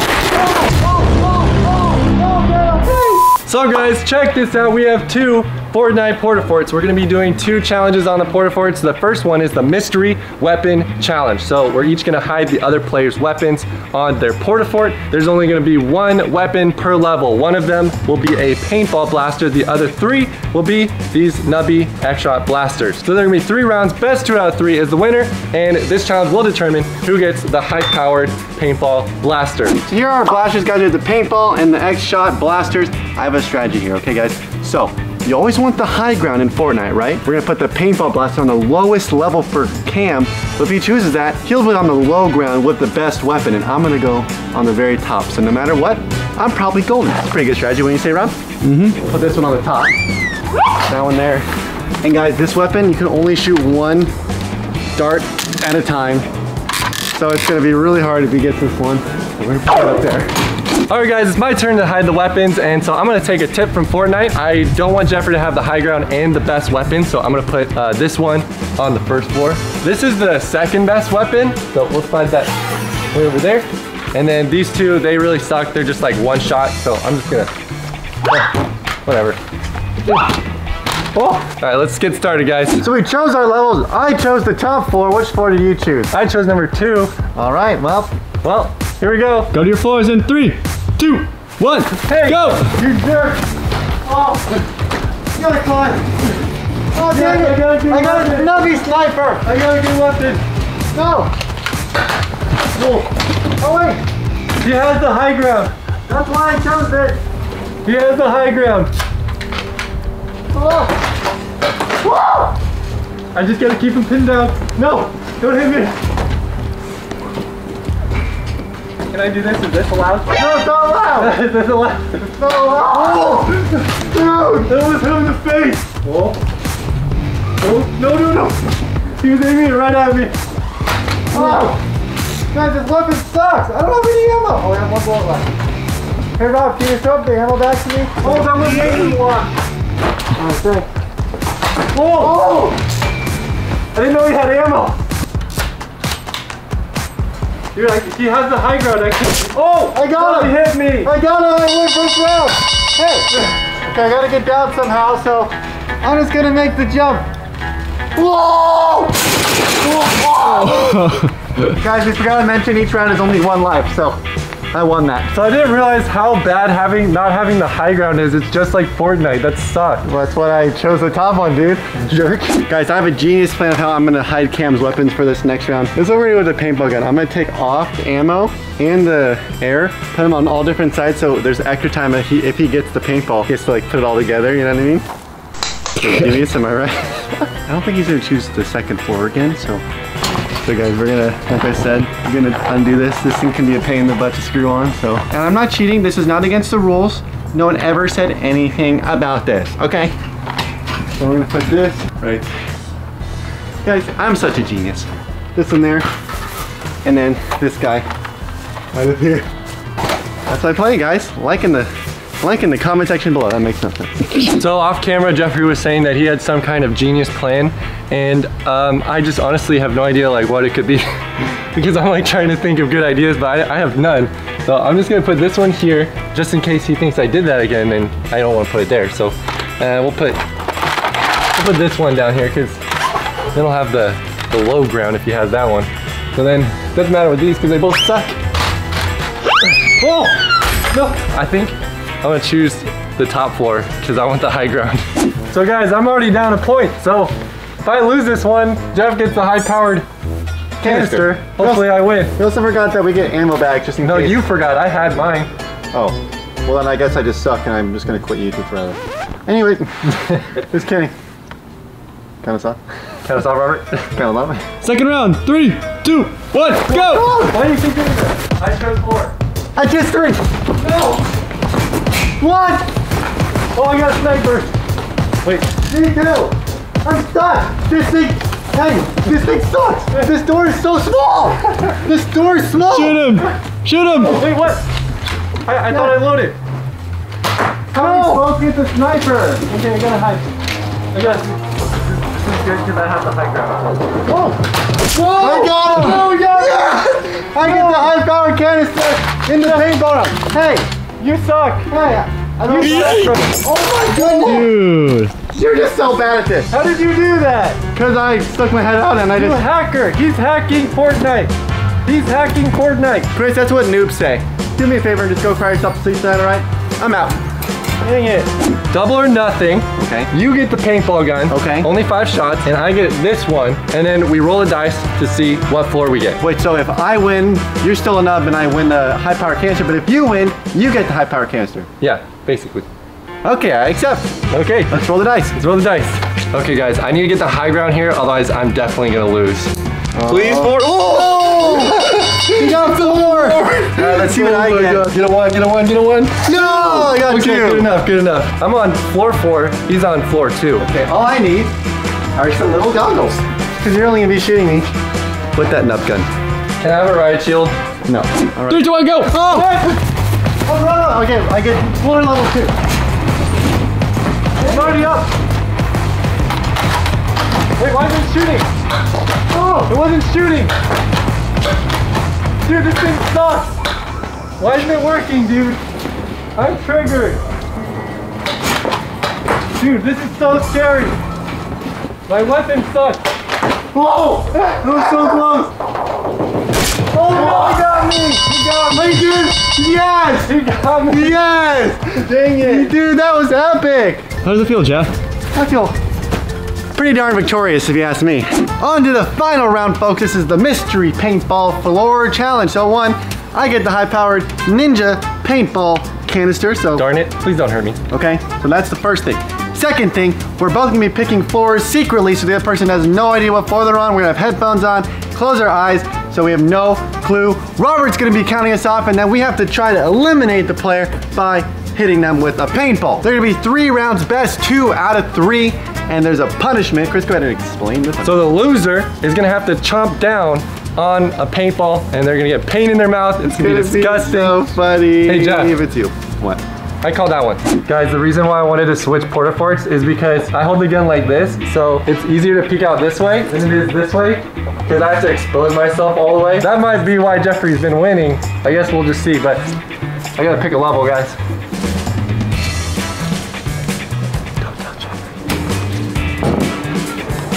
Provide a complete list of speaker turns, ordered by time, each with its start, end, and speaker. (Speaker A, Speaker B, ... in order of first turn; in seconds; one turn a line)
Speaker A: 0.3-3.3
Speaker B: 3.4-29.8
Speaker A: 29.9-50.0
Speaker A: 50.8-51.5
Speaker A: 52.0-54.1
Speaker A: 55.0-56.3
Speaker A: 57.1-60.3
Speaker B: 60.9-72.5
Speaker B: 73.1-77.5
Speaker B: 79.0-79.4
Speaker B: 81.1-82.9
Speaker A: 82.8-86.1
Speaker B: 86.1-87.1
Speaker A: 87.3-88.1
Speaker B: 88.4-89.5
Speaker C: 89.5-92.7
Speaker B: 91.9-92.8
Speaker A: 92.5-93.4
Speaker A: 94.0-94.6
Speaker A: 95.3-96.1
Speaker A: 96.9-99.4
Speaker B: 97.1-98.8
Speaker B: 99.4-100.4
Speaker A: 100.9-101.3
Speaker B: 102.8-103.0
Speaker B: 103.6-104.0
Speaker B: 104.6-105.7
Speaker A: 106.1-107.2
Speaker B: 107.8-108.9
Speaker A: 110.5-110.9
Speaker A: 112.0-112.5
Speaker B: 113.3-115.9
Speaker B: 119.1-120.5
Speaker A: 120.3-121.4
Speaker B: 121.2-122.3
Speaker A: 122.3-124.8
Speaker B: 122.9-123.8
Speaker B: 124.7-126.4
Speaker B: 127.6-128.6
Speaker B: 129.2-130.3
Speaker A: 131.3-131.8
Speaker B: 131.3-131.8
Speaker A: 132.5-135.5
Speaker A: 136.4-139.2
Speaker B: 138.2-139.6
Speaker A: 140.4-140.9
Speaker B: 141.9-142.4
Speaker A: 142.2-142.8
Speaker B: 143.9-144.9
Speaker B: 147.7-151.1
Speaker A: 149.9-157.3
Speaker A: 158.1-164.2
Speaker A: 164.7-165.3
Speaker B: 165.3-170.1
Speaker A: 170.0-185.0
Speaker A: 185.9-189.8
Speaker A: 190.6-200.1
Speaker A: 201.2-202.5
Speaker A: 203.8-206.1
Speaker A: 207.0-208.0
Speaker A: 208.9-209.5
Speaker A: 210.5-214.6
Speaker B: 214.5-230.4
Speaker B: 231.6-232.8
Speaker B: 233.5-238.4
Speaker B: 239.6-240.4
Speaker B: 240.9-250.0
Speaker A: 250.8-254.4
Speaker B: 250.8-252.3
Speaker B: 254.0-255.5
Speaker A: 255.9-261.1
Speaker A: 262.4-262.8
Speaker B: 263.2-264.1
Speaker A: 264.1-264.7
Speaker C: 264.8-267.2
Speaker B: 266.5-269.3
Speaker A: 266.7-267.6
Speaker A: 269.8-270.5
Speaker B: 270.8-271.2
Speaker A: 272.4-272.9
Speaker B: 273.7-274.7
Speaker B: 275.4-275.7
Speaker A: 275.9-283.4
Speaker C: 282.9-284.4
Speaker B: 283.1-283.5
Speaker B: 284.1-284.8
Speaker B: 285.6-286.5
Speaker A: 285.9-286.2
Speaker A: 287.9-289.6
Speaker B: 287.9-288.5
Speaker B: 289.6-290.5
Speaker B: 291.1-294.5
Speaker B: 295.1-298.1
Speaker A: 295.1-300.9
Speaker B: 299.6-299.9
Speaker B: 301.2-301.9
Speaker A: 301.9-304.7
Speaker B: 302.6-304.7
Speaker C: 302.8-303.4
Speaker C: 304.4-305.3
Speaker A: 305.4-306.7
Speaker B: 306.7-307.8
Speaker A: 307.9-309.6
Speaker B: 309.3-311.5
Speaker B: 312.1-313.3
Speaker A: 313.3-317.4
Speaker B: 318.0-326.4
Speaker A: 320.0-320.3
Speaker A: 321.5-321.9
Speaker A: 326.4-331.9
Speaker B: 332.0-332.9
Speaker A: 333.4-334.4
Speaker B: 334.5-350.9
Speaker A: 334.9-335.6
Speaker A: 340.1-345.1
Speaker A: 346.4-347.9
Speaker A: 350.8-351.7
Speaker A: 352.4-354.9
Speaker A: 355.5-356.3
Speaker B: 356.8-357.7
Speaker A: 358.1-360.0
Speaker B: 358.7-360.0
Speaker A: 360.6-362.7
Speaker B: 364.6-365.3
Speaker A: 364.6-365.0
Speaker B: 367.8-368.7
Speaker A: 369.5-369.8
Speaker B: 369.6-370.7
Speaker B: 372.6-373.7
Speaker B: 374.6-375.8
Speaker B: 376.5-377.4
Speaker B: 379.8-381.2
Speaker B: 382.3-383.2
Speaker A: 383.9-385.7
Speaker B: 387.1-388.8
Speaker A: 387.2-390.5
Speaker B: 390.4-391.5
Speaker A: 391.1-394.4
Speaker B: 392.2-392.9
Speaker B: 394.4-395.1
Speaker A: 395.5-395.9
Speaker A: 396.9-407.1
Speaker B: 406.9-408.0
Speaker A: 408.1-428.5
Speaker B: 428.2-434.7
Speaker A: 433.5-436.6
Speaker B: 435.2-435.8
Speaker B: 437.0-449.6
Speaker B: 450.4-451.4
Speaker B: 454.6-455.1